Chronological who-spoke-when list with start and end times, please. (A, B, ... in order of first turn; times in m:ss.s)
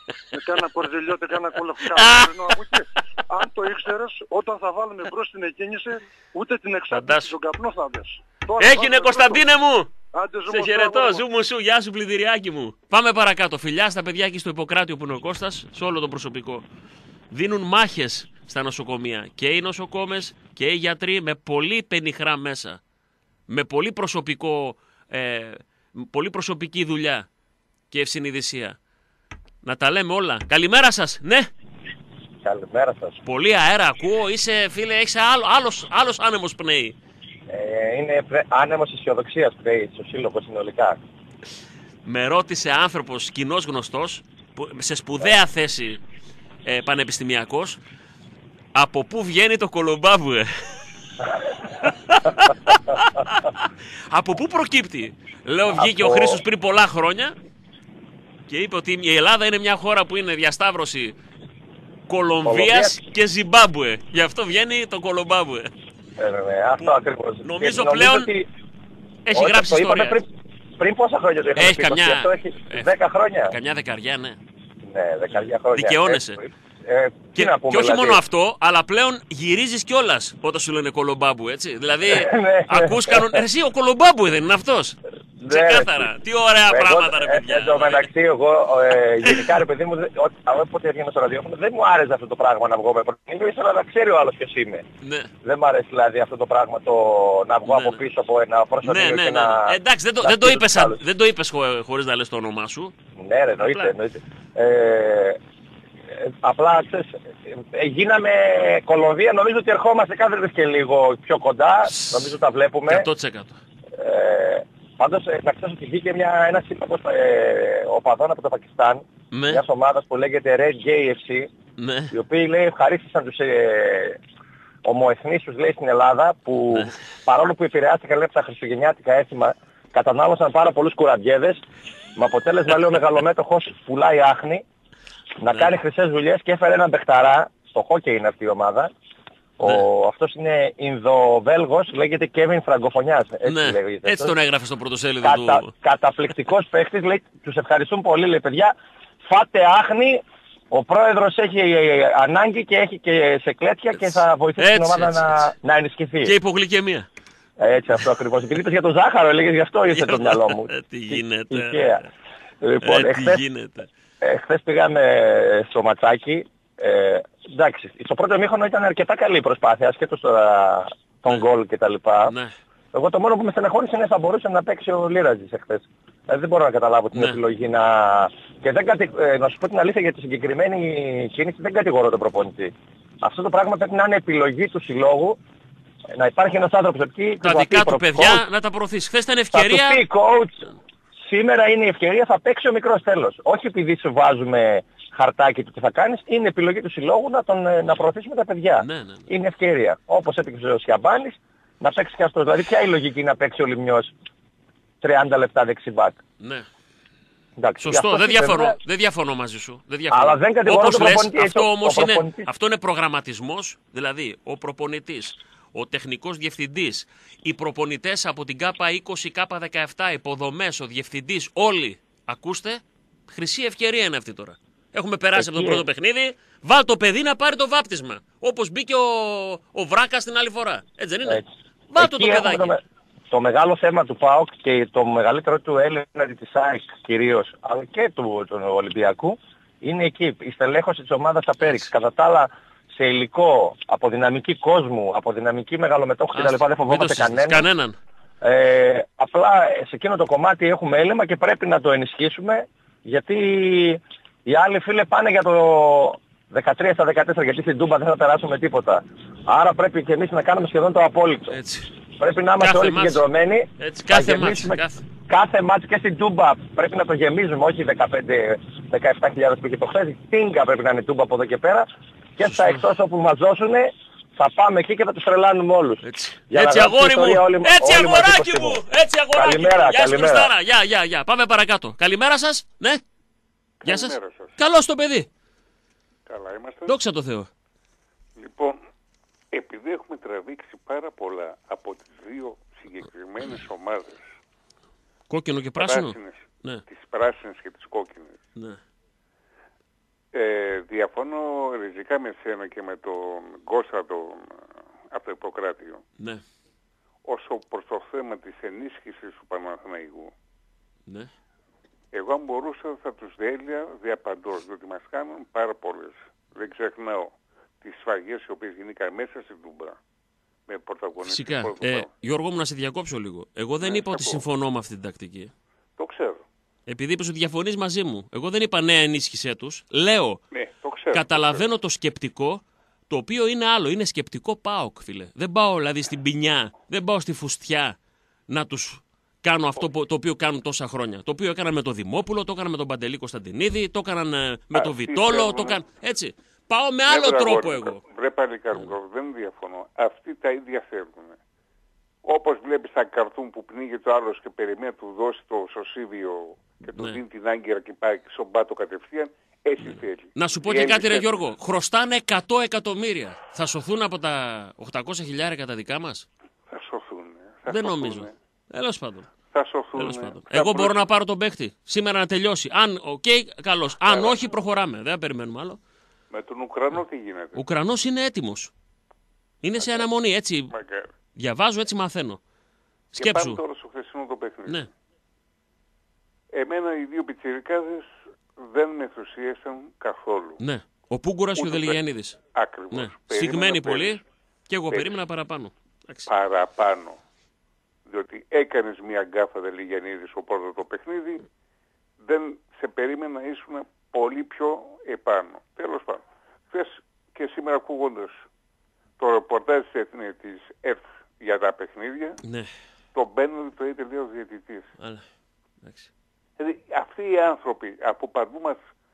0:00.3-0:09.4 A
0:01.9-0:02.6 B
0:06.9-0:07.3 B
0:08.6-0:09.9 B
0:10.1-0:11.2 A
0:10.5-0:16.6 B
0:17.3-0:22.8 B
0:23.5-0:27.3 B
0:27.9-0:28.8 B
0:29.6-0:31.5 B
0:32.4-0:33.2 C
0:33.2-0:37.0 B
0:37.5-0:41.0 C
0:42.0-0:46.0 B
0:46.6-0:47.8 B
0:48.7-0:50.5 B
0:51.8-0:57.4 B
0:55.7-0:56.4 C
0:58.5-1:01.2 B
1:02.1-1:05.7 B
1:02.4-1:03.0 C
1:06.2-1:08.5 C
1:06.8-1:08.3 B
1:09.3-1:10.2 B
1:09.3-1:13.5 C
1:11.6-1:12.9 B
1:13.5-1:14.4 B
1:14.9-1:18.2 C
1:15.7-1:16.4 B
1:17.3-1:28.1 B
1:22.0-1:23.4 C
1:25.4-1:26.1 C
1:26.7-1:34.8 C
1:35.0-1:35.3 B
1:35.4-1:41.0 C
1:37.6-1:38.0 B
1:38.8-1:42.9 B
1:43.2-1:45.4 C
1:43.6-1:43.9 B
1:46.2-1:53.1 C
1:51.9-1:52.3 B
1:52.9-1:53.6 B
1:54.0-2:01.5 C
1:59.3-1:59.6 B
2:01.8-2:02.1 B
2:02.1-2:04.2 C
2:04.8-2:11.6 C
2:12.2-2:14.6 C
2:15.4-2:18.9 C
2:15.5-2:15.8 B
2:19.6-2:24.3 C
2:23.4-2:25.7 B
2:25.2-2:28.7 C
2:29.3-2:36.3 C
2:33.9-2:35.5 B
2:36.2-2:37.1 B
2:37.6-2:42.0 C
2:39.9-2:42.1 B
2:42.6-2:43.4 C
2:42.8-2:43.9 B
2:44.2-2:52.3 C
2:52.2-2:52.6 B
2:52.9-3:05.4 C
2:57.1-2:57.4 B
3:06.1-3:08.4 C
3:07.4-3:10.0 B
3:09.5-3:10.6 C
3:11.2-3:24.1 C
3:18.8-3:19.3 B
3:25.0-3:26.2 C
3:26.4-3:26.7 B
3:27.6-3:28.8 C
3:27.8-3:52.8 B
3:30.1-3:32.5 C
3:45.3-3:45.8 C
3:51.3-4:07.6 C
4:06.3-4:08.0 B
4:08.4-4:21.6 C
4:21.5-4:21.9 B
4:22.2-4:31.9 C
4:22.6-4:23.2 B
4:23.8-4:25.0 B
4:32.4-4:38.8 C
4:32.4-4:32.8 B
4:36.0-4:43.0 B
4:39.3-4:40.5 C
4:43.8-4:44.5 D
4:43.8-4:45.3 B
4:46.3-4:47.0 D
4:46.9-4:47.5 B
4:48.4-4:48.8 D
4:49.5-4:54.2 D
4:55.3-4:56.8 B
4:55.8-4:58.4 D
5:00.3-5:04.5 D
5:05.1-5:06.0 D
5:07.2-5:10.3 D
5:12.1-5:20.0 D
5:20.7-5:22.1 D
5:21.3-5:25.5 B
5:23.8-5:24.4 D
5:26.0-5:26.4 D
5:26.9-5:30.4 B
5:30.5-5:31.6 D
5:31.1-5:38.0 B
5:38.5-5:48.0 B
5:44.7-5:45.8 D
5:47.1-5:51.4 D
5:52.2-6:01.5 D
5:59.8-6:06.3 B
6:06.7-6:08.3 D
6:07.6-6:09.3 B
6:09.5-6:11.1 D
6:09.9-6:15.8 B
6:14.0-6:14.4 D
6:16.3-6:17.6 D
6:17.6-6:18.7 B
6:19.6-6:20.7 B
6:19.8-6:20.1 D
6:20.7-6:21.1 D
6:21.4-6:22.4 B
6:23.1-6:23.6 B
6:23.2-6:24.9 D
6:26.5-6:28.1 D
6:28.6-6:30.6 D
6:30.6-6:32.4 B
6:31.6-6:32.0 D
6:32.5-6:34.2 D
6:32.9-6:36.3 B
6:36.3-6:37.2 D
6:38.1-6:41.4 D
6:42.2-6:48.3 D
6:49.2-6:52.4 D
6:52.4-6:52.7 B
6:53.1-6:54.9 D
6:55.8-6:56.1 B
6:56.6-6:58.8 D